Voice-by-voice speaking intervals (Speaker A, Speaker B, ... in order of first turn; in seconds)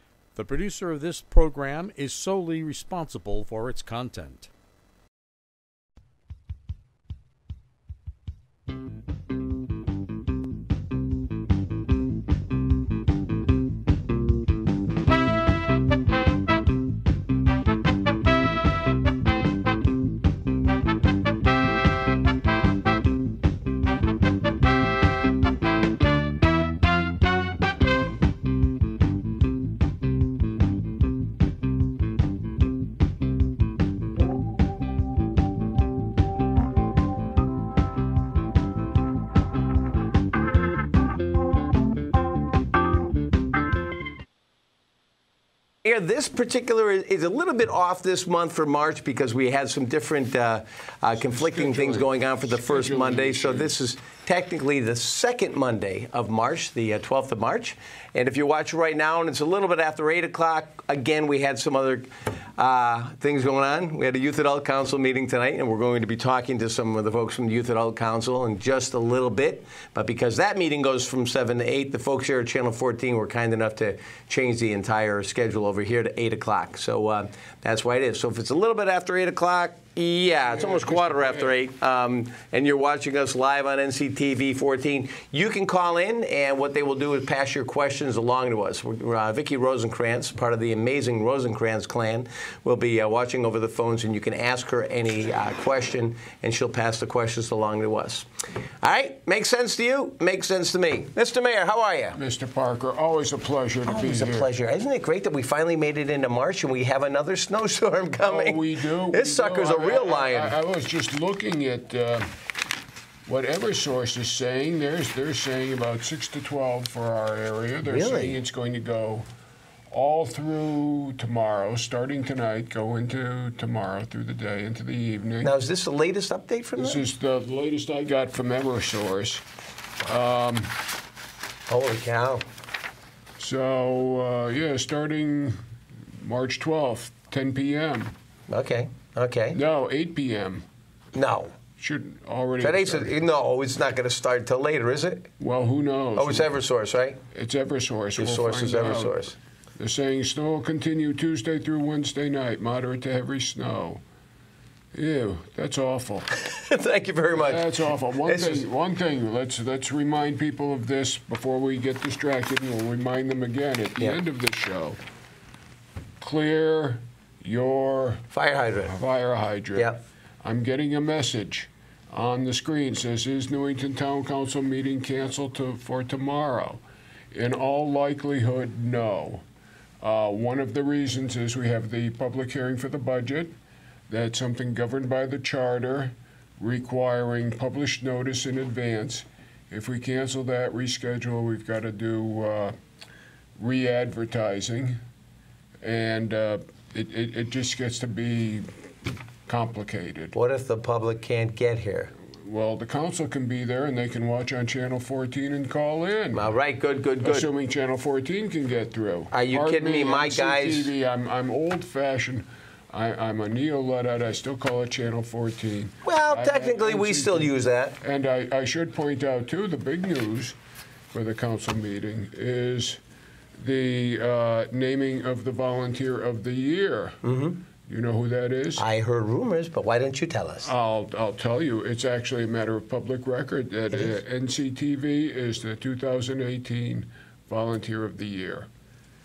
Speaker A: 0.3-4.5
Speaker B: 45.8-98.3, 98.8-102.2, 103.9-110.5, 117.8-118.4, 125.4-127.0, 131.7-132.4, 138.5-139.6, 141.1-141.6, 142.6-145.3, 146.2-147.2, 148.2-149.3, 156.3-157.7, 158.2-158.7, 168.3-169.0, 169.7-170.0, 200.3-202.1, 206.3-207.5, 209.3-210.9, 216.0-217.9, 227.2-227.6, 228.8-230.7, 233.9-234.2
Speaker C: 51.2-53.7, 80.5-81.5, 102.2-104.5, 108.2-112.3, 113.3-119.2, 119.9-125.5, 126.8-129.4, 130.0-130.8, 133.4-135.6, 136.2-138.1, 139.5-140.6, 141.8-143.1, 145.4-146.5, 147.3-154.0, 154.9-156.3, 157.3-165.0, 166.2-168.2, 168.9-176.8, 177.3-179.4, 180.0-183.5, 184.1-192.7, 193.6-195.0, 195.8-198.7, 199.5-200.3, 202.4-206.4, 207.2-217.5, 218.0-220.5, 221.1-223.0, 223.6-227.2, 227.9-228.8, 230.6-238.7